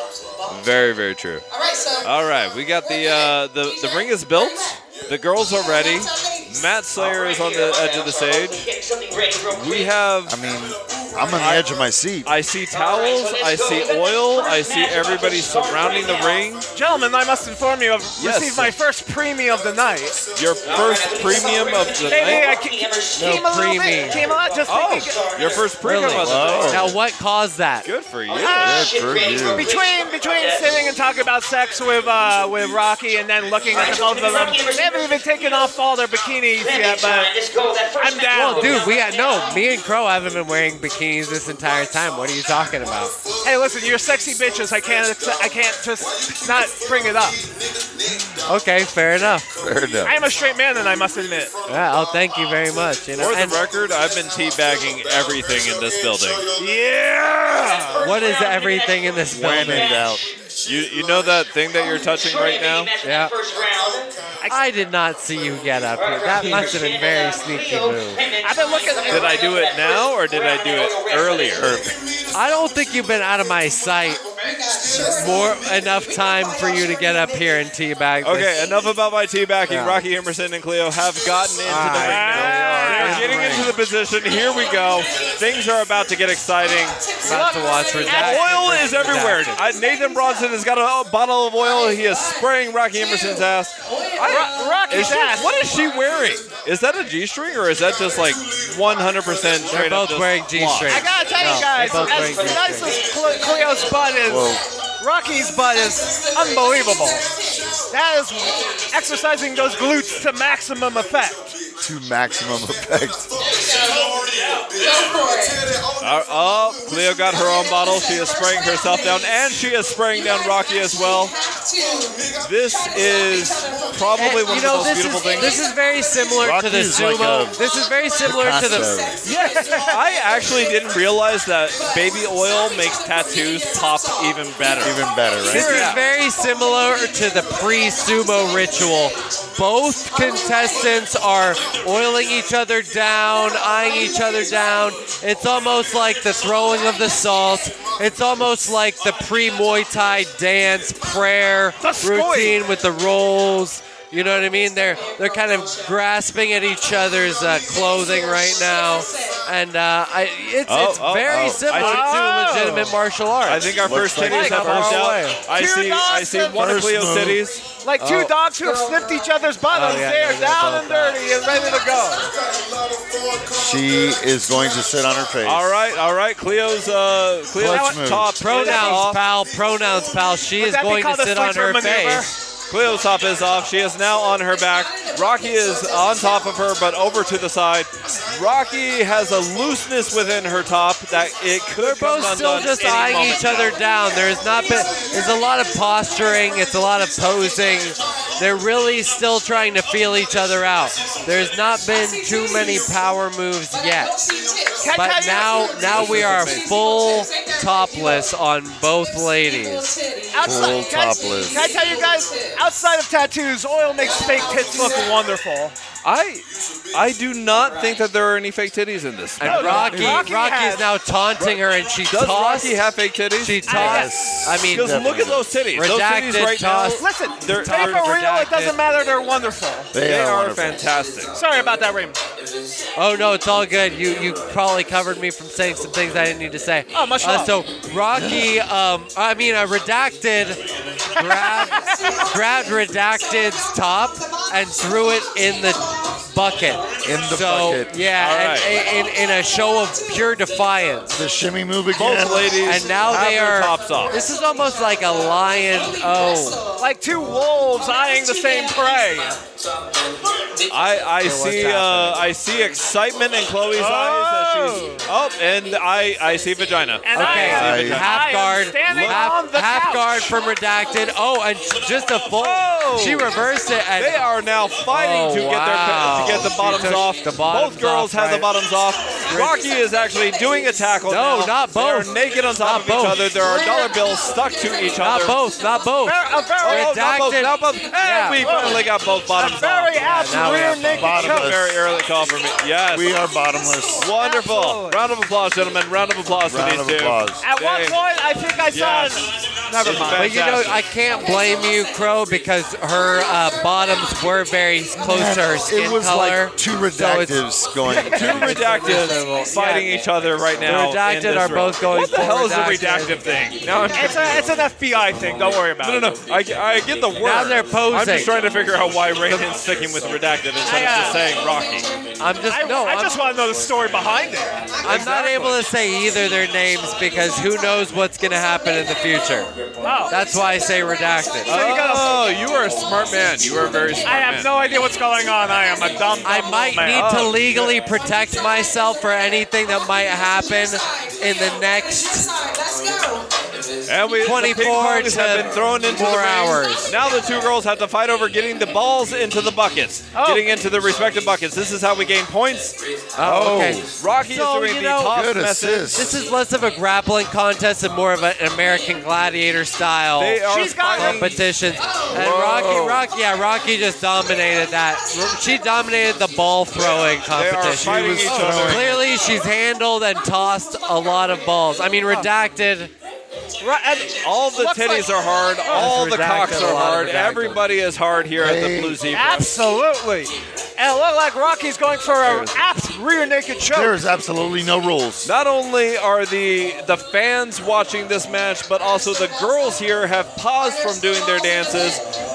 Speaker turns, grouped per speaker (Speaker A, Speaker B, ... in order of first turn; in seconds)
Speaker A: 0.5-1.4, 2.0-8.7, 9.5-10.4, 11.3-11.6, 12.2-16.6, 18.2-18.7, 20.4-22.5, 24.7-27.0, 27.9-28.8, 53.2-56.4, 60.6-62.9, 69.1-71.8, 78.2-87.0, 88.1-101.0, 116.0-121.3, 122.4-125.6, 129.2-136.0, 160.7-162.1, 163.4-167.6, 175.4-179.2, 182.7-193.8, 205.9-206.6, 216.0-220.2, 221.4-223.8, 224.6-228.1, 230.0-231.3, 248.2-248.8, 251.9-254.2, 260.7-268.1, 268.9-269.3, 272.4-273.4, 274.0-285.4, 286.6-293.2, 294.0-298.0, 298.7-299.3, 299.8-300.8, 308.1-314.4, 315.8-321.9, 324.9-325.6, 331.5-334.5, 336.9-337.8, 343.9-352.8, 354.0-356.0, 360.2-361.4, 362.2-362.7, 367.3-369.0, 374.2-379.5, 382.2-382.6, 385.2-392.0
Speaker B: 1.5-6.7, 74.4-77.7, 84.0-85.7, 86.6-89.1, 89.7-90.7, 91.6-94.8, 106.1-107.7, 113.4-115.7, 117.1-126.8, 128.4-139.2, 140.1-142.3, 143.1-145.2, 146.9-147.4, 154.9-155.9, 156.8-159.5, 184.6-187.1, 193.7-196.8, 201.8-203.2, 203.7-208.4, 209.0-212.8, 214.0-215.3, 241.3-246.7, 248.8-250.6, 253.8-259.2, 293.3-293.8, 320.7-322.5, 324.5-324.9, 326.8-327.8, 328.6-329.0, 330.1-331.5, 333.5-334.1, 337.8-343.3, 361.8-362.1, 390.6-392.1
Speaker C: 7.0-10.1, 12.7-16.6, 20.6-25.7, 28.3-30.8, 33.7-35.7, 36.6-39.6, 57.6-60.4, 61.8-64.1, 65.9-71.8, 101.2-104.2
Speaker D: 10.3-12.3, 26.2-26.9, 28.6-29.7, 49.6-50.2, 59.3-60.2, 71.6-71.9, 82.4-83.7, 104.2-104.6, 111.8-113.3, 126.4-127.6, 128.2-129.2, 134.8-135.9, 161.3-161.6, 163.8-164.7, 166.5-167.4, 173.5-175.7, 177.6-178.4, 210.4-211.6, 223.8-225.6, 229.9-230.8, 238.1-238.5, 247.0-248.0, 251.1-252.6, 267.6-268.0, 291.0-291.8, 292.9-294.1, 296.5-297.5, 305.0-308.8, 353.2-353.9, 355.1-356.1, 362.1-363.1, 367.7-369.0, 378.3-379.0, 383.7-385.3
Speaker E: 16.7-20.2, 22.1-25.3, 28.4-28.8, 29.5-37.3, 38.0-38.9, 43.4-47.4, 50.0-51.5, 56.6-58.0, 68.4-69.5, 82.0-83.3, 87.3-88.5, 94.2-95.5, 100.9-107.2, 107.9-111.5, 129.3-130.0, 151.8-152.6, 161.7-163.0, 164.2-166.8, 167.8-172.3, 177.7-179.1, 180.6-182.3, 204.8-206.3, 210.3-215.8, 219.4-220.9, 223.7-224.1, 227.0-229.9, 231.3-232.2, 236.9-237.6, 241.2-242.1, 256.8-259.4, 263.8-265.1, 267.0-270.3, 286.0-287.0, 288.4-291.5, 294.1-295.0, 297.4-300.4, 313.9-316.1, 320.6-321.2, 322.5-324.6, 329.8-330.1, 331.5-332.2, 334.0-337.1, 350.1-350.5, 360.4-361.4, 368.3-368.7, 373.6-376.0, 379.1-384.0
Speaker F: 23.2-24.2, 25.8-27.9, 38.3-43.1, 48.5-49.5, 51.7-53.6, 58.0-60.0, 63.0-63.3, 64.5-68.2, 72.3-74.2, 75.0-78.6, 79.7-80.0, 81.7-83.7, 87.2-89.7, 99.7-103.0, 124.2-128.9, 135.5-165.4, 168.0-168.9, 169.7-171.3, 178.3-182.3, 191.8-204.2, 204.9-209.9, 219.4-222.8, 223.4-228.8, 233.0-240.6, 241.2-251.2, 252.5-256.7, 261.2-262.3, 267.1-274.3, 274.9-278.5, 279.3-279.6, 281.1-283.4, 285.0-288.5, 290.0-291.4, 300.1-310.0, 310.6-313.5, 317.2-318.3, 322.2-323.2, 324.8-329.5, 330.1-331.6, 336.2-342.3, 344.2-346.9, 353.2-355.3, 355.9-372.9, 375.7-377.7